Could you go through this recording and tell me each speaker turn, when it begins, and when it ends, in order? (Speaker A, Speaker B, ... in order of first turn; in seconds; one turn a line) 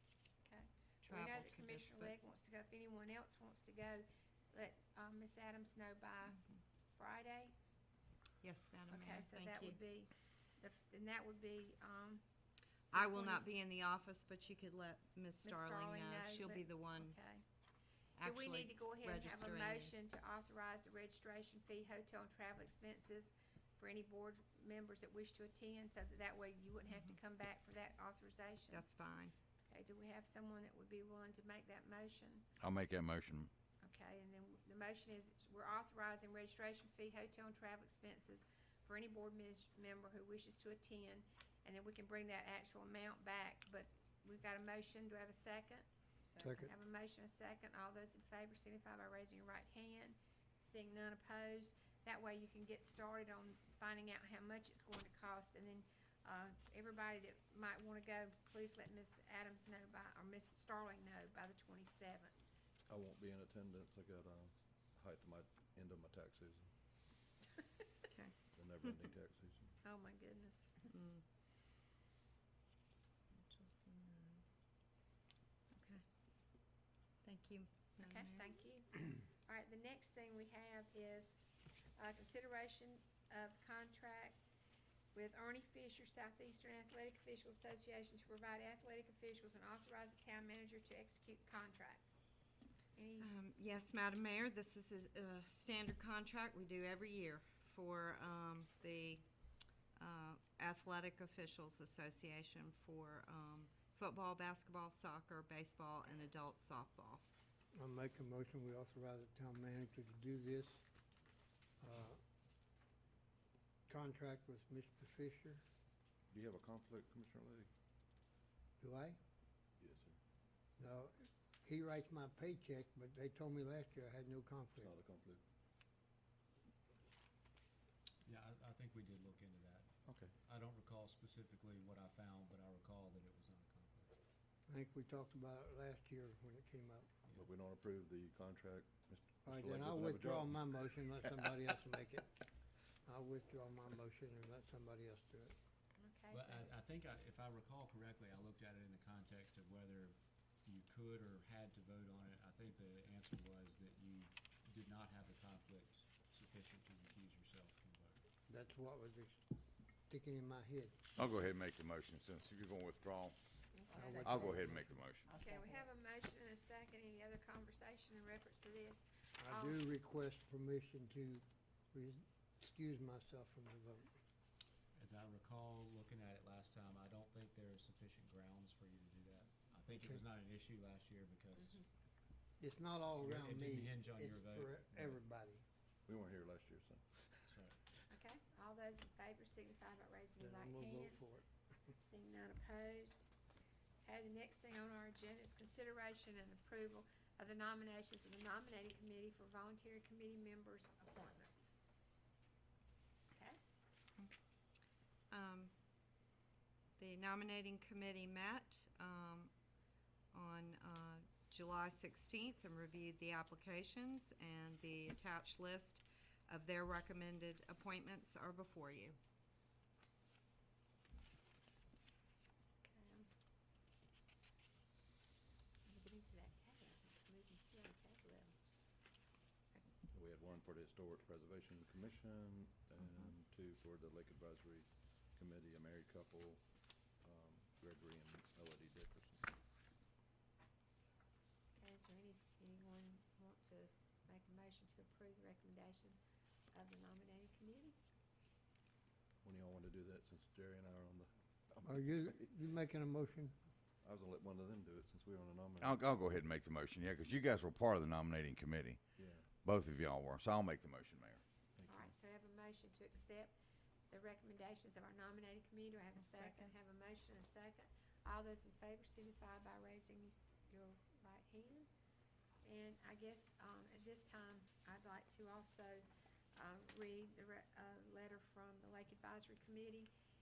Speaker A: 0.5-7.5
Speaker B: 1.0-2.1
Speaker B: 8.4-9.8
Speaker A: 8.9-12.2
Speaker A: 12.9-13.6
Speaker B: 12.9-17.2
Speaker A: 15.4-17.4
Speaker B: 18.2-19.9
Speaker A: 18.2-28.9
Speaker B: 28.7-29.3
Speaker A: 29.7-32.5
Speaker C: 32.6-33.5
Speaker A: 33.8-45.9
Speaker D: 46.4-46.7
Speaker A: 46.4-62.4
Speaker E: 62.9-66.7
Speaker B: 68.1-69.0
Speaker E: 68.5-69.8
Speaker A: 69.8-70.8
Speaker B: 70.9-71.2
Speaker B: 73.3-74.4
Speaker B: 75.7-76.0
Speaker B: 77.2-78.5
Speaker A: 78.0-81.4
Speaker A: 82.0-84.4
Speaker A: 85.1-92.1
Speaker A: 93.0-93.3
Speaker B: 93.2-99.3
Speaker B: 100.0-107.2
Speaker D: 107.8-110.8
Speaker D: 111.8-112.2
Speaker D: 113.9-115.6
Speaker E: 116.3-117.7
Speaker D: 118.8-119.2
Speaker E: 119.8-120.2
Speaker D: 120.8-124.9
Speaker E: 124.8-125.4
Speaker F: 128.2-129.9
Speaker E: 130.1-130.3
Speaker F: 130.5-134.2
Speaker D: 134.7-137.1
Speaker E: 137.3-141.5
Speaker D: 139.4-142.3
Speaker D: 143.1-145.5
Speaker A: 146.0-146.7
Speaker F: 146.3-158.2
Speaker D: 158.5-159.4
Speaker D: 160.1-161.0
Speaker C: 161.2-163.3
Speaker A: 163.9-164.3
Speaker D: 163.9-165.1
Speaker C: 164.0-165.3
Speaker A: 165.4-169.8
Speaker D: 169.4-174.1
Speaker F: 175.0-181.8
Speaker D: 179.9-180.2
Speaker D: 182.6-185.6
Speaker F: 183.1-185.2
Speaker E: 186.1-187.7
Speaker F: 187.4-187.8
Speaker A: 188.1-191.2
Speaker D: 190.4-191.5
Speaker A: 192.0-193.3
Speaker A: 194.0-201.7
Speaker A: 203.3-203.6
Speaker B: 205.3-205.7
Speaker B: 207.0-209.5
Speaker B: 210.3-219.2
Speaker A: 222.8-223.3
Speaker A: 225.9-228.6
Speaker E: 230.1-236.6
Speaker E: 237.2-239.5
Speaker A: 241.8-246.2
Speaker A: 246.7-248.0
Speaker E: 249.4-252.4
Speaker D: 251.8-253.6
Speaker E: 254.0-256.0
Speaker C: 255.8-261.4
Speaker E: 259.2-259.5
Speaker E: 261.8-262.1
Speaker A: 261.9-263.5
Speaker A: 264.1-271.9
Speaker B: 266.3-266.7
Speaker A: 272.6-280.1